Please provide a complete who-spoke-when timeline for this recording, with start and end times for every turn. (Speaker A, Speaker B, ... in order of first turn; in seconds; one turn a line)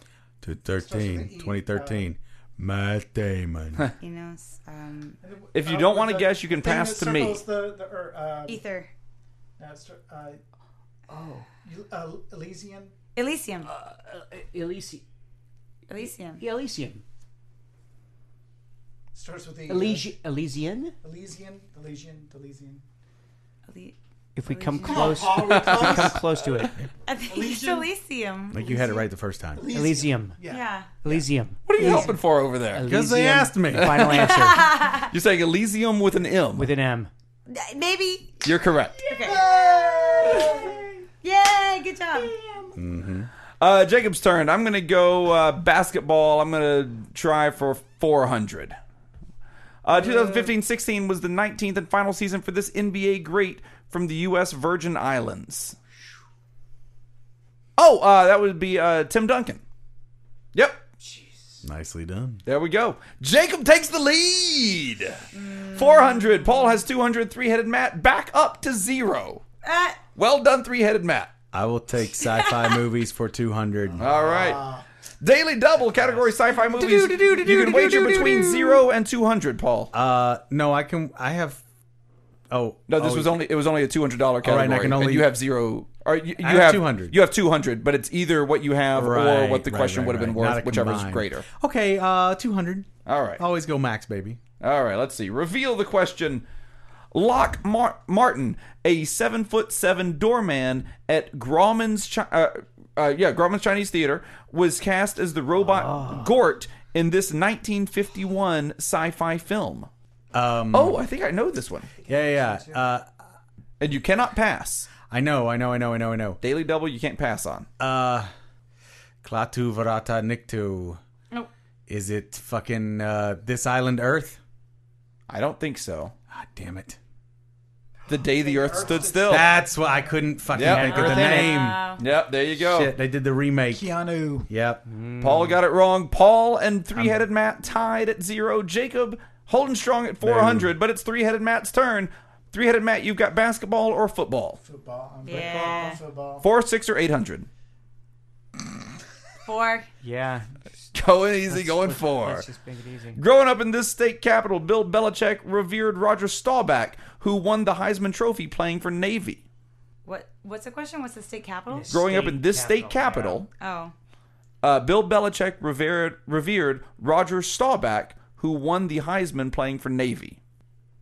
Speaker A: 0.4-3.9
Speaker B: 0.8-2.1
Speaker C: 4.0-5.2
Speaker B: 5.2-8.7
Speaker D: 5.5-7.5
Speaker C: 8.5-8.9
Speaker B: 9.6-10.4
Speaker E: 11.1-11.5
Speaker B: 11.6-12.9
Speaker C: 13.2-13.7
Speaker E: 13.7-15.0
Speaker C: 15.9-16.4
Speaker E: 16.4-17.0
Speaker B: 19.1-20.1
Speaker E: 19.7-21.0
Speaker B: 21.0-22.8
Speaker C: 23.7-25.4
Speaker E: 24.4-26.8
Speaker B: 24.8-26.3
Speaker D: 25.4-26.7
Speaker C: 27.1-29.0
Speaker B: 27.3-27.9
Speaker A: 28.5-29.6
Speaker B: 29.6-31.2
Speaker E: 29.7-30.4
Speaker C: 30.4-31.0
Speaker E: 31.0-32.1
Speaker D: 31.7-32.9
Speaker C: 31.8-32.2
Speaker E: 32.7-34.8
Speaker A: 32.8-34.0
Speaker D: 33.7-34.3
Speaker C: 34.1-35.1
Speaker D: 35.1-36.7
Speaker E: 36.5-37.1
Speaker C: 37.5-38.5
Speaker D: 38.4-39.0
Speaker C: 39.0-39.5
Speaker B: 39.1-40.8
Speaker C: 40.2-40.6
Speaker C: 41.2-42.3
Speaker A: 42.7-43.3
Speaker D: 43.6-48.8
Speaker D: 49.9-55.8
Speaker E: 50.1-50.4
Speaker D: 57.8-59.6
Speaker D: 60.5-60.8
Speaker E: 61.0-61.6
Speaker A: 61.6-62.4
Speaker D: 62.5-69.4
Speaker C: 65.3-66.8
Speaker C: 69.6-70.0
Speaker D: 70.2-71.3
Speaker A: 71.5-74.3
Speaker C: 72.2-72.8
Speaker B: 74.0-74.8
Speaker D: 74.0-74.7
Speaker D: 75.2-79.9
Speaker C: 76.8-78.8
Speaker E: 77.6-78.0
Speaker A: 79.9-81.6
Speaker A: 82.5-83.4
Speaker D: 82.9-91.5
Speaker A: 84.4-85.3
Speaker A: 86.4-87.2
Speaker A: 88.9-94.4
Speaker D: 93.1-93.4
Speaker D: 94.6-96.5
Speaker D: 97.1-109.9
Speaker E: 105.6-106.4
Speaker A: 110.3-111.0
Speaker D: 110.7-111.9
Speaker E: 112.0-112.8
Speaker A: 112.0-113.1
Speaker D: 113.8-114.9
Speaker A: 115.1-116.4
Speaker D: 116.4-117.7
Speaker A: 117.8-118.3
Speaker A: 119.2-121.0
Speaker A: 121.9-124.4
Speaker D: 125.3-126.1
Speaker A: 126.3-127.0
Speaker B: 128.1-129.9
Speaker D: 128.1-129.5
Speaker A: 129.2-131.9
Speaker D: 130.5-131.2
Speaker E: 130.6-131.7
Speaker C: 131.0-132.0
Speaker D: 132.0-132.9
Speaker A: 132.6-133.9
Speaker B: 133.7-134.5
Speaker A: 134.5-134.8
Speaker E: 134.9-135.6
Speaker D: 135.2-144.6
Speaker A: 136.9-137.2
Speaker A: 140.2-140.7
Speaker B: 144.6-146.5
Speaker C: 145.2-146.0
Speaker D: 146.4-147.5
Speaker C: 149.4-149.9
Speaker E: 150.0-150.6
Speaker D: 150.9-152.5
Speaker E: 151.5-153.2
Speaker D: 153.2-159.4
Speaker C: 160.1-161.9
Speaker E: 161.7-163.5
Speaker D: 161.9-163.5
Speaker C: 163.6-163.9
Speaker D: 164.6-170.4